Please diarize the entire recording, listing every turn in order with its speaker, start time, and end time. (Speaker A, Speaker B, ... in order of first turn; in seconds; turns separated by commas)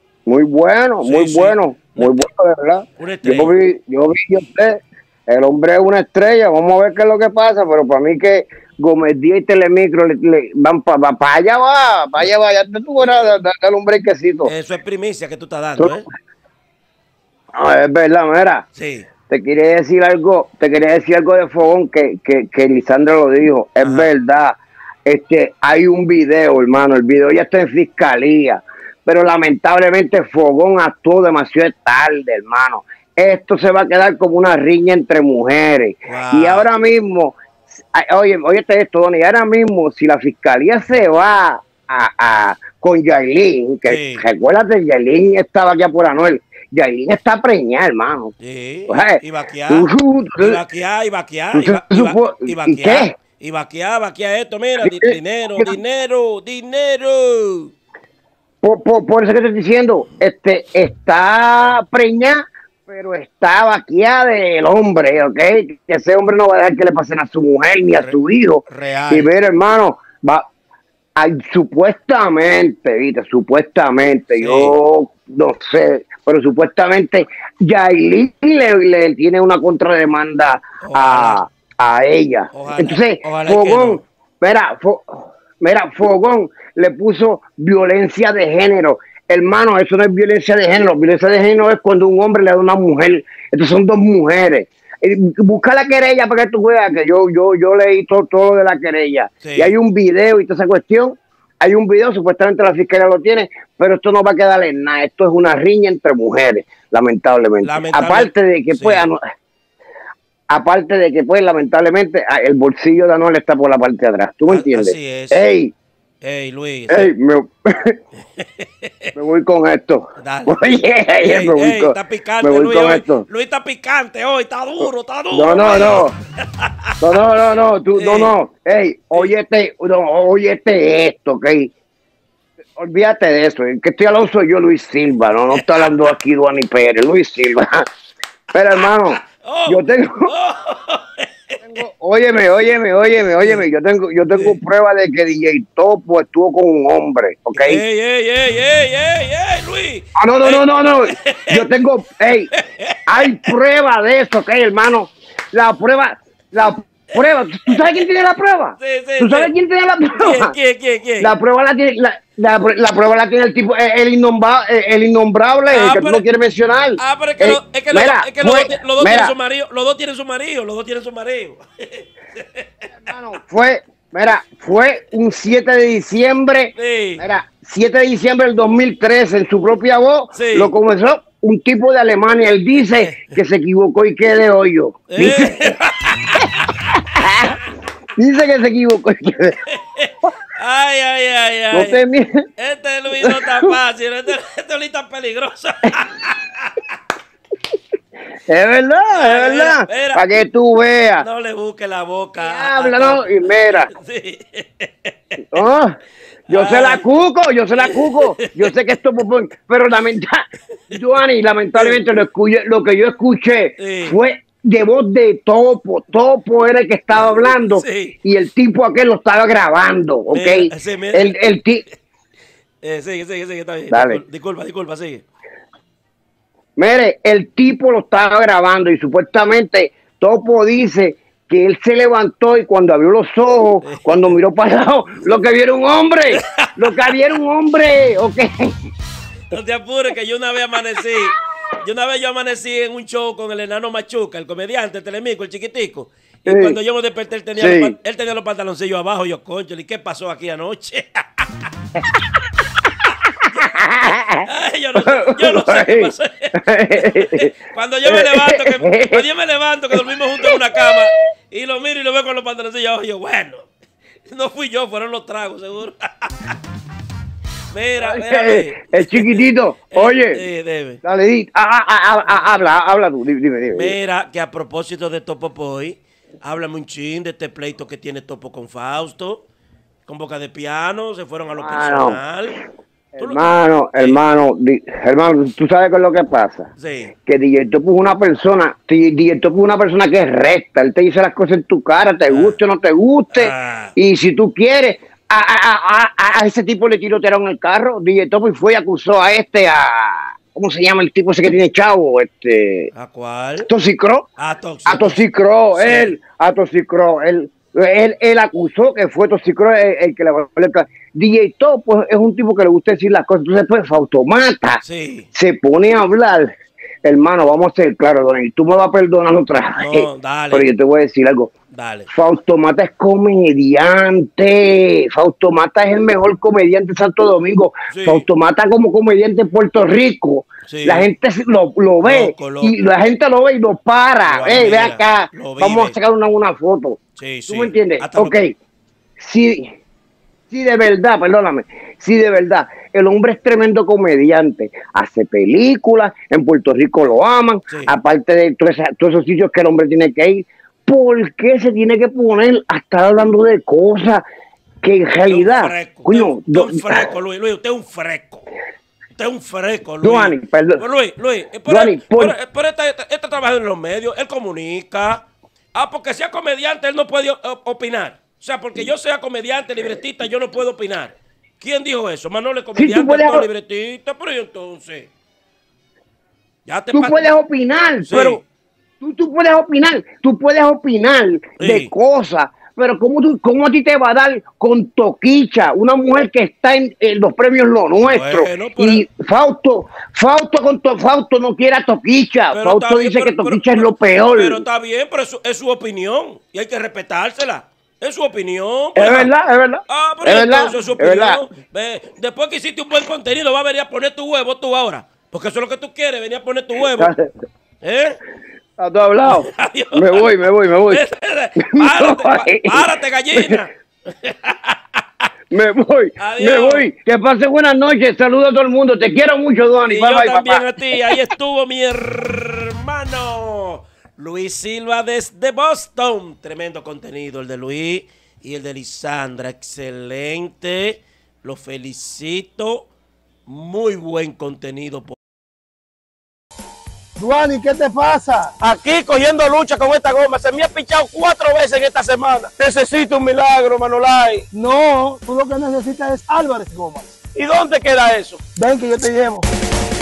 Speaker A: 0.3-14.5, Speaker B: 1.0-2.3, Speaker B: 3.0-3.5, Speaker B: 13.0-13.3, Speaker B: 14.5-16.0, Speaker A: 17.5-18.6, Speaker B: 18.8-19.1, Speaker A: 19.3-48.3, Speaker B: 23.8-24.1, Speaker B: 36.1-36.7, Speaker B: 43.9-44.2, Speaker B: 48.4-49.9, Speaker A: 48.9-50.6, Speaker B: 50.4-57.7, Speaker A: 51.5-53.1, Speaker A: 54.8-55.7, Speaker A: 58.6-70.4, Speaker B: 68.7-69.3, Speaker A: 71.2-109.2, Speaker B: 74.4-74.7, Speaker B: 80.8-81.4, Speaker B: 82.5-84.0, Speaker B: 99.4-99.8, Speaker B: 107.6-109.1, Speaker A: 110.5-115.7, Speaker B: 114.5-115.4, Speaker B: 116.2-117.1, Speaker A: 116.9-118.0, Speaker B: 118.4-119.1, Speaker A: 119.2-123.3, Speaker B: 120.2-120.6, Speaker B: 121.2-126.9, Speaker A: 124.8-126.2, Speaker A: 127.0-131.7, Speaker B: 128.0-128.3, Speaker A: 132.8-137.8, Speaker B: 135.6-135.9, Speaker A: 138.5-140.3, Speaker B: 139.2-141.6, Speaker A: 141.6-147.8, Speaker B: 147.6-151.6, Speaker A: 150.2-152.5, Speaker B: 152.5-153.5, Speaker A: 153.1-160.5, Speaker B: 157.2-158.0, Speaker B: 158.8-159.5, Speaker B: 160.2-161.3, Speaker A: 161.2-169.3, Speaker B: 165.7-166.2, Speaker B: 167.0-172.7, Speaker A: 173.0-185.6, Speaker B: 176.8-177.2, Speaker B: 180.3-180.7, Speaker B: 183.0-183.3, Speaker B: 185.1-186.7, Speaker A: 188.2-189.6, Speaker B: 189.7-192.0, Speaker A: 191.7-192.4, Speaker B: 192.6-196.8, Speaker A: 193.2-193.7, Speaker A: 198.5-201.3, Speaker B: 199.2-200.2, Speaker B: 201.2-205.4, Speaker A: 202.4-203.9, Speaker A: 205.5-205.9, Speaker A: 206.5-221.9, Speaker B: 206.5-207.0, Speaker B: 207.8-208.7, Speaker B: 211.7-212.0, Speaker B: 213.8-214.2, Speaker B: 217.6-218.2, Speaker B: 220.3-221.4, Speaker B: 222.8-225.2, Speaker A: 223.9-224.2, Speaker A: 226.8-238.8, Speaker B: 233.8-234.4, Speaker B: 236.6-237.1, Speaker B: 239.5-251.7, Speaker A: 246.5-246.8, Speaker A: 247.6-247.9, Speaker A: 253.5-254.5, Speaker B: 254.4-263.7, Speaker A: 255.0-257.5, Speaker A: 258.1-259.2, Speaker A: 259.9-261.0, Speaker B: 264.3-266.6, Speaker B: 267.7-271.0, Speaker A: 268.0-270.4, Speaker A: 271.0-274.0, Speaker B: 273.7-279.4, Speaker B: 280.1-282.6, Speaker A: 281.5-282.2, Speaker A: 283.2-286.7, Speaker B: 286.8-287.1, Speaker A: 287.3-302.9, Speaker B: 292.3-292.6, Speaker B: 293.3-293.9, Speaker B: 302.9-303.7, Speaker A: 303.6-304.3, Speaker B: 304.4-305.2, Speaker A: 304.9-314.8, Speaker B: 305.7-306.1, Speaker B: 314.8-315.3, Speaker A: 315.3-316.5, Speaker A: 317.0-321.5, Speaker B: 319.8-320.7, Speaker B: 321.7-322.1, Speaker A: 322.1-338.5, Speaker B: 327.9-328.2, Speaker B: 330.7-331.1, Speaker B: 332.0-332.8, Speaker B: 334.3-335.9, Speaker B: 337.2-338.4, Speaker A: 339.2-339.7, Speaker A: 340.5-354.2, Speaker A: 354.8-357.1, Speaker B: 355.3-358.4, Speaker B: 359.2-375.1, Speaker A: 360.0-360.8, Speaker A: 361.7-362.4, Speaker A: 372.8-373.5, Speaker B: 376.7-377.2, Speaker A: 376.9-378.4, Speaker B: 378.0-378.4, Speaker A: 379.0-394.6, Speaker B: 381.6-381.9, Speaker B: 388.1-389.0, Speaker B: 392.5-399.3, Speaker A: 398.9-401.4, Speaker B: 399.9-407.1, Speaker A: 406.9-407.3, Speaker B: 407.8-408.2, Speaker A: 408.8-411.0, Speaker B: 409.2-410.3, Speaker B: 410.9-413.7, Speaker A: 411.6-413.6, Speaker B: 414.2-415.3, Speaker A: 415.5-421.2, Speaker B: 416.2-416.9, Speaker B: 419.9-432.9, Speaker B: 433.5-435.2, Speaker C: 437.2-438.5, Speaker B: 438.6-444.4, Speaker C: 444.5-447.2, Speaker B: 447.4-448.4, Speaker C: 448.6-449.5